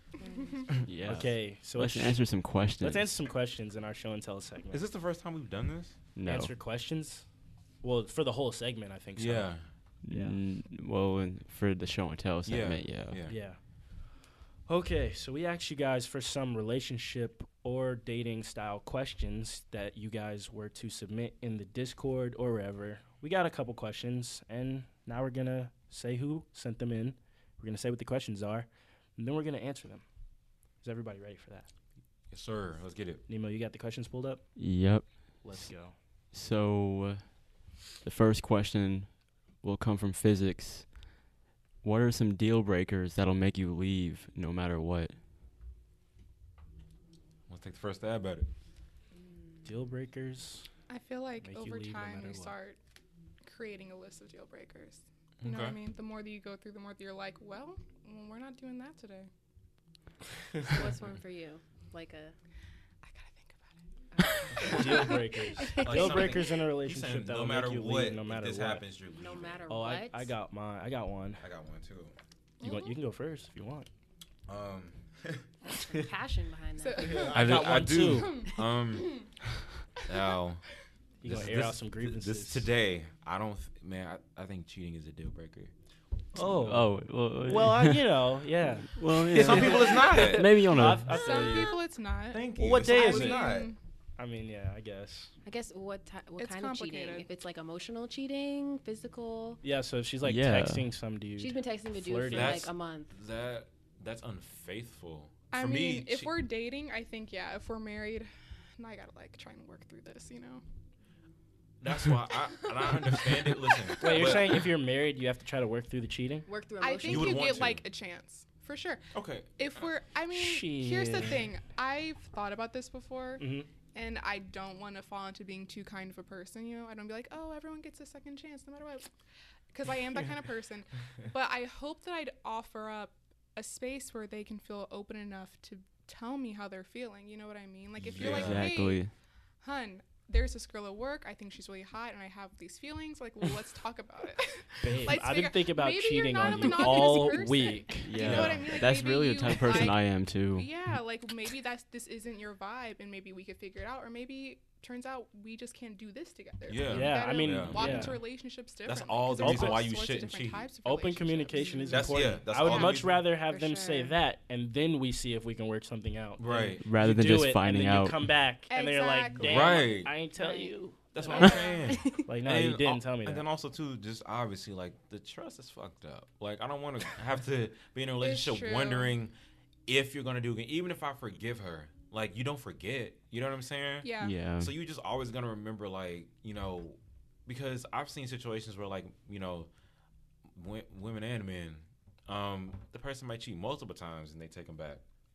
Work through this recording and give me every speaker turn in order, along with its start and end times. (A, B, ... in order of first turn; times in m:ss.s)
0:00.2-0:00.8 A
0:00.2-0:00.7 B
0:00.8-0:03.2 C
0:01.0-0:04.8 D
0:04.7-0:06.0 E
0:06.2-0:06.5 C
0:06.2-0:07.3 D
0:07.8-0:09.6 D
0:09.2-0:09.6 E
0:10.0-0:13.2 C
0:10.1-0:10.4 D
0:12.5-0:13.4 E
0:13.3-0:13.6 D
0:14.7-0:30.0 D
0:30.8-0:31.7 D
0:32.3-0:33.2 E
0:33.3-0:36.0 D
0:34.6-0:35.7 C
0:36.3-0:41.0 C
0:41.8-0:45.2 C
0:47.5-0:48.5 E
0:49.6-0:50.7 D
0:50.9-0:52.8 B
0:51.4-0:52.6 D
0:53.4-0:59.3 B
0:55.4-0:55.8 E
1:00.6-1:02.4 A
1:03.0-1:05.8 B
1:04.1-1:06.4 A
1:04.5-1:04.8 E
1:04.6-1:08.8 D
1:05.8-1:09.6 E
1:09.2-1:10.3 A
1:09.7-1:11.4 D
1:11.4-1:12.2 E
1:12.6-1:13.9 D
1:14.5-1:15.5 E
1:15.6-1:17.4 A
1:16.8-1:18.6 B
1:17.0-1:18.5 D
1:17.2-1:19.3 E
1:20.0-1:20.6 E
1:21.2-1:22.7 D
1:21.2-1:25.7 E
1:26.3-1:31.8 D
1:26.6-1:28.1 C
1:28.9-1:31.3 C
1:29.3-1:30.6 E
1:31.1-1:33.8 B
1:32.3-1:33.7 E
1:32.6-1:33.5 D
1:34.2-1:35.3 D
1:35.4-1:39.6 A
1:36.4-1:37.3 B
1:39.6-1:42.7 D
1:40.2-1:40.9 C
1:41.4-1:43.1 A
1:42.3-1:46.3 E
1:45.5-1:50.6 B
1:51.8-1:54.6 E
1:53.9-1:54.4 B
1:54.0-1:56.5 D
1:56.5-1:57.6 A
1:56.8-1:59.0 B
1:57.0-1:57.8 E
1:59.1-1:59.8 E
1:59.6-2:09.1 B
2:00.3-2:01.4 D
2:03.4-2:03.7 D
2:09.7-2:19.0 B
2:18.0-2:18.7 E
2:18.2-2:19.1 C
2:19.6-2:41.9 B
2:24.8-2:28.5 D
2:26.4-2:27.8 A
2:28.0-2:30.7 C
2:28.2-2:28.9 E
2:36.7-2:38.1 E
2:36.8-2:38.2 D
2:38.9-2:40.7 E
2:39.4-2:39.9 D
2:40.8-2:51.5 D
2:41.5-2:42.2 A
2:41.9-2:43.2 E
2:43.4-2:44.2 A
2:46.4-2:46.8 E
2:46.8-2:48.3 C
2:48.7-2:49.9 B
2:49.4-2:50.1 E
2:50.4-2:50.7 A
2:51.1-2:59.3 E
2:51.2-2:52.0 B
2:51.4-2:52.2 A
2:52.2-2:53.5 D
2:58.2-2:59.1 B
2:59.9-3:09.7 E
3:04.0-3:04.3 B
3:04.2-3:04.7 C
3:10.5-3:15.0 E